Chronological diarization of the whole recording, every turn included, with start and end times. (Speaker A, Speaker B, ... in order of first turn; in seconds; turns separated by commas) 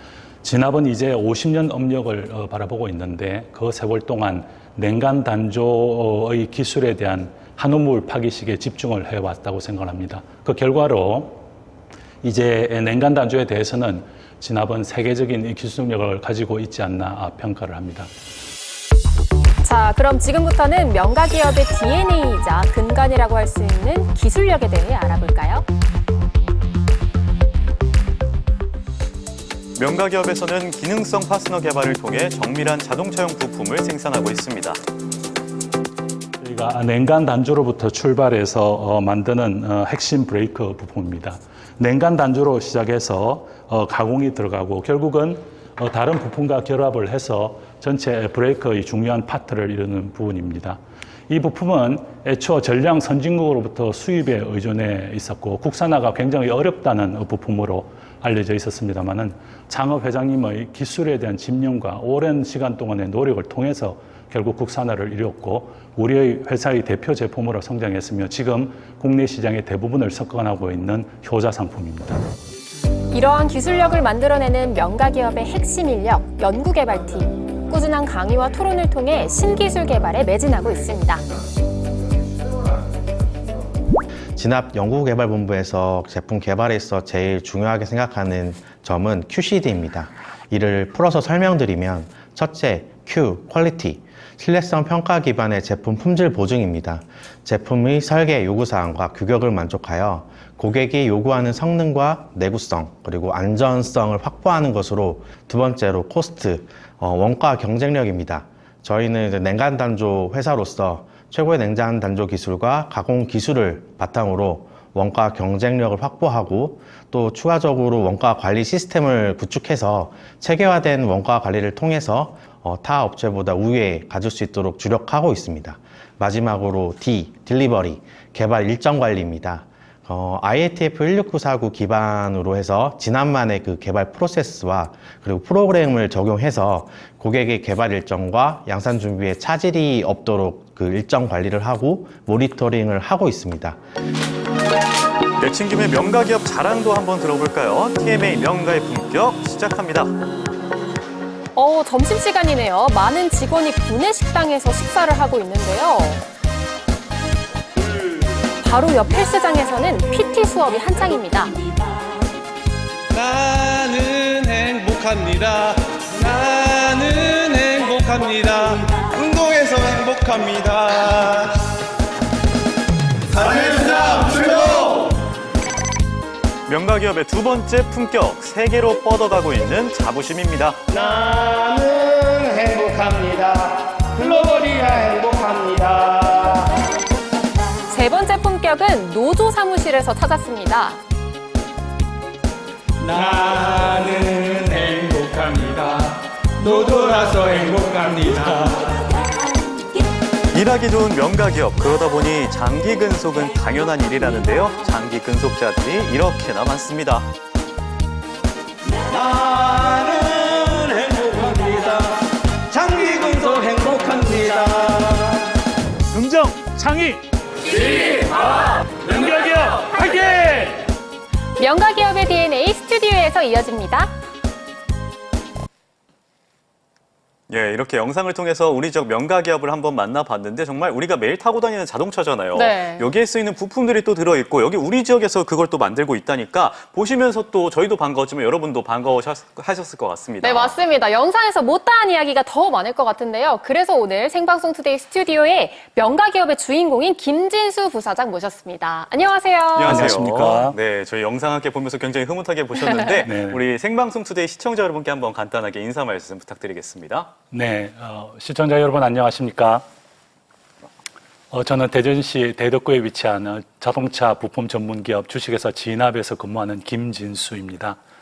Speaker A: 0.4-11.4, Speaker A: 12.2-18.1, Speaker B: 19.6-25.7, Speaker C: 29.8-34.8, Speaker A: 36.4-72.2, Speaker B: 73.1-81.3, Speaker D: 84.4-143.8, Speaker C: 145.4-150.1, Speaker B: 151.6-156.2, Speaker B: 158.6-161.6, Speaker E: 163.1-171.7, Speaker E: 173.3-175.1, Speaker C: 176.7-180.8, Speaker E: 180.9-186.8, Speaker B: 187.9-191.0, Speaker E: 193.0-199.1, Speaker C: 200.5-207.3, Speaker E: 209.0-215.5, Speaker A: 216.1-217.2, Speaker A: 217.8-220.9, Speaker B: 221.6-224.1, Speaker C: 227.5-240.8, Speaker B: 232.6-233.1, Speaker B: 240.4-250.0, Speaker C: 249.8-257.3, Speaker A: 249.8-250.8, Speaker A: 253.2-253.6, Speaker A: 257.5-259.9, Speaker A: 261.5-268.0